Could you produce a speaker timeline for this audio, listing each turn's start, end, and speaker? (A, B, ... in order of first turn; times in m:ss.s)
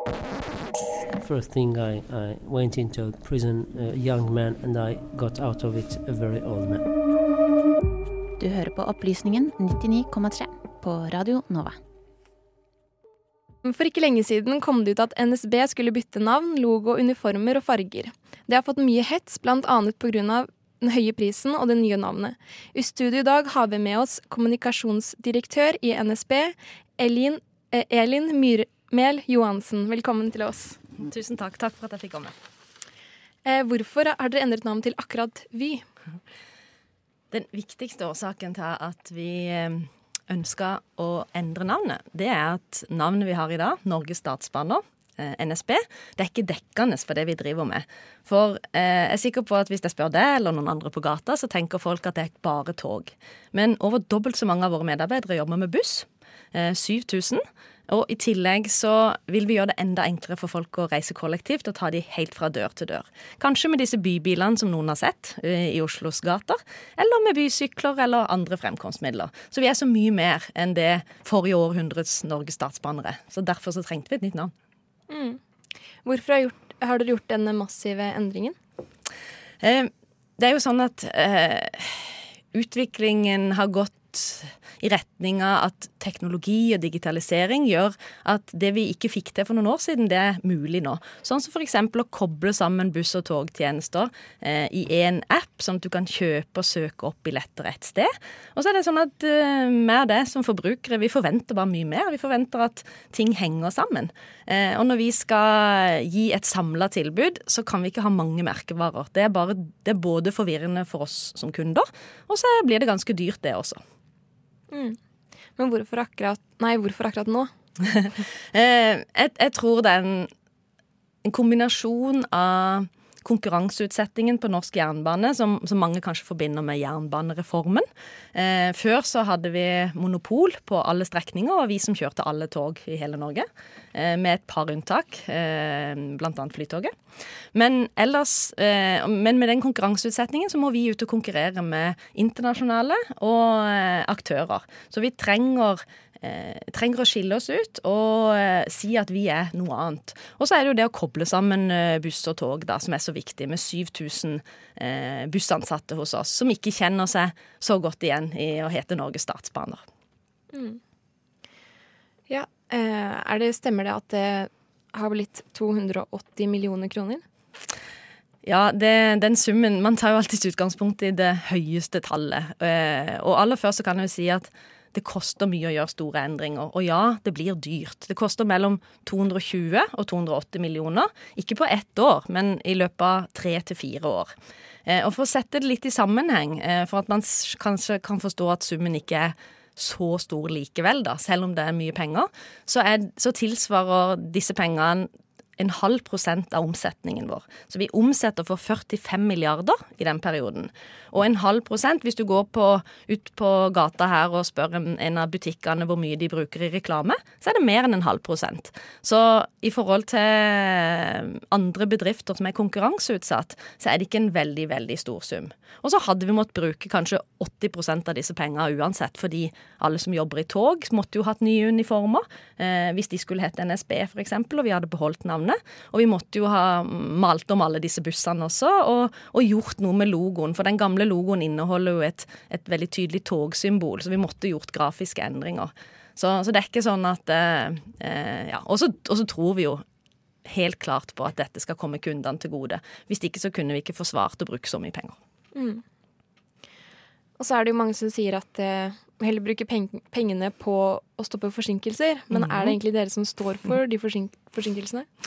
0:01.2-0:06.8 A
0:08.4-0:11.8 B
0:13.6-0:30.8 C
0:31.0-0:32.3 D
0:33.4-0:35.8 C
0:37.3-1:14.5 D
1:15.1-1:15.4 C
1:16.0-1:18.5 C
1:19.6-1:53.8 D
1:54.7-1:55.0 C
1:55.6-1:57.5 C
1:57.9-2:00.3 D
2:01.2-2:16.9 D
2:17.5-2:39.8 D
2:40.5-2:40.8 C
2:42.3-2:47.2 C
2:48.4-3:04.3 D
3:04.8-3:59.8 D
4:00.4-4:05.2 D
4:05.5-4:05.8 C
4:07.4-4:15.1 C
4:12.3-4:12.7 D